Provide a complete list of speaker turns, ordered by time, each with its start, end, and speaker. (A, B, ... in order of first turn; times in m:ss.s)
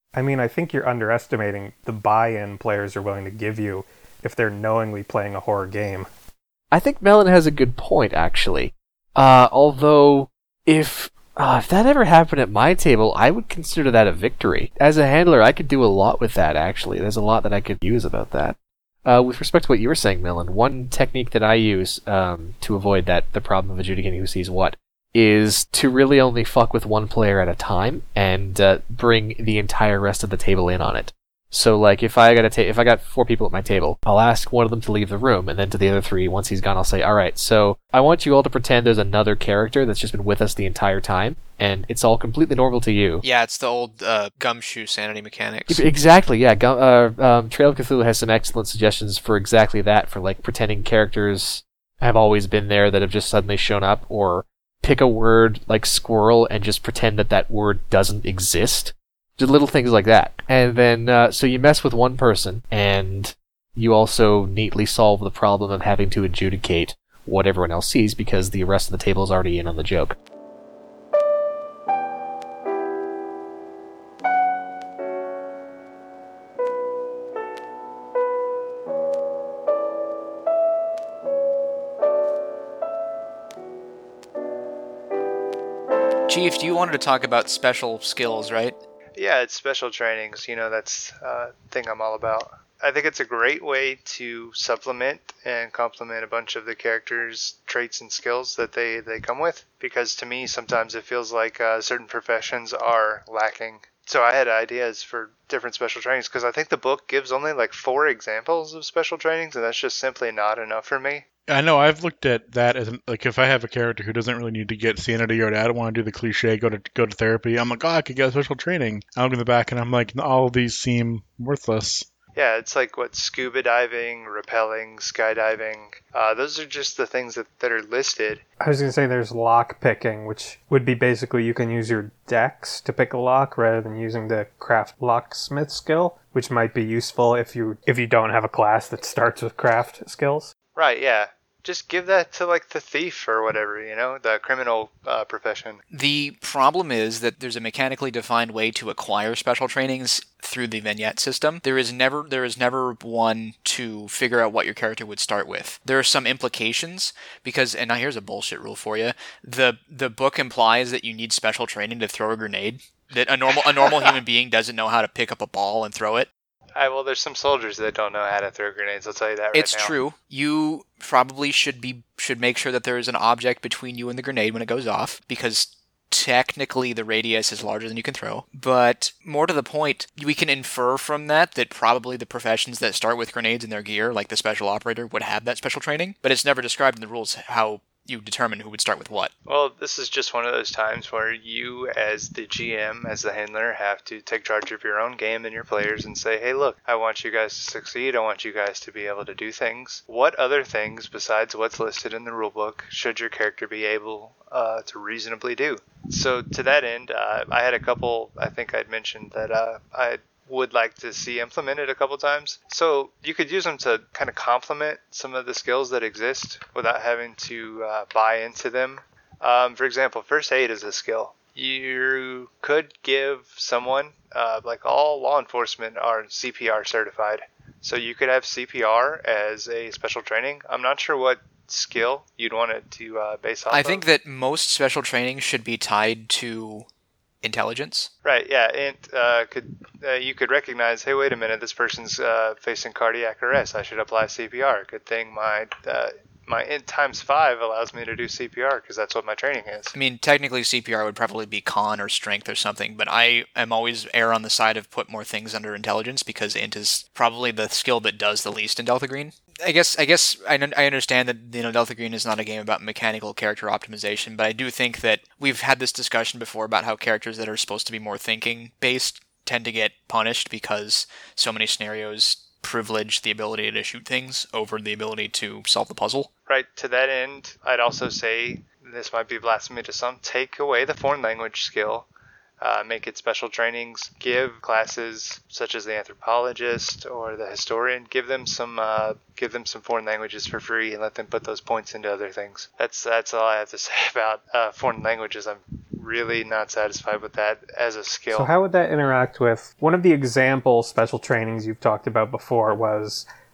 0:00.1-0:06.1 A
0:06.7-0:43.2 B
0:43.2-0:45.8 C
0:45.7-1:10.2 B
1:26.3-1:28.8 C
1:29.2-1:51.2 D
1:51.5-2:02.1 E
2:02.4-2:08.4 D
2:08.6-2:20.5 A
2:20.8-2:25.8 D
2:25.9-2:46.3 C
2:46.8-2:50.0 D
2:49.5-3:09.3 C
3:09.5-3:54.0 D
3:53.7-3:56.9 C
3:57.4-3:58.1 C
3:58.2-4:09.9 D
4:09.9-4:36.3 C
4:36.5-4:42.1 D
4:42.6-4:58.5 D
4:58.3-5:03.3 A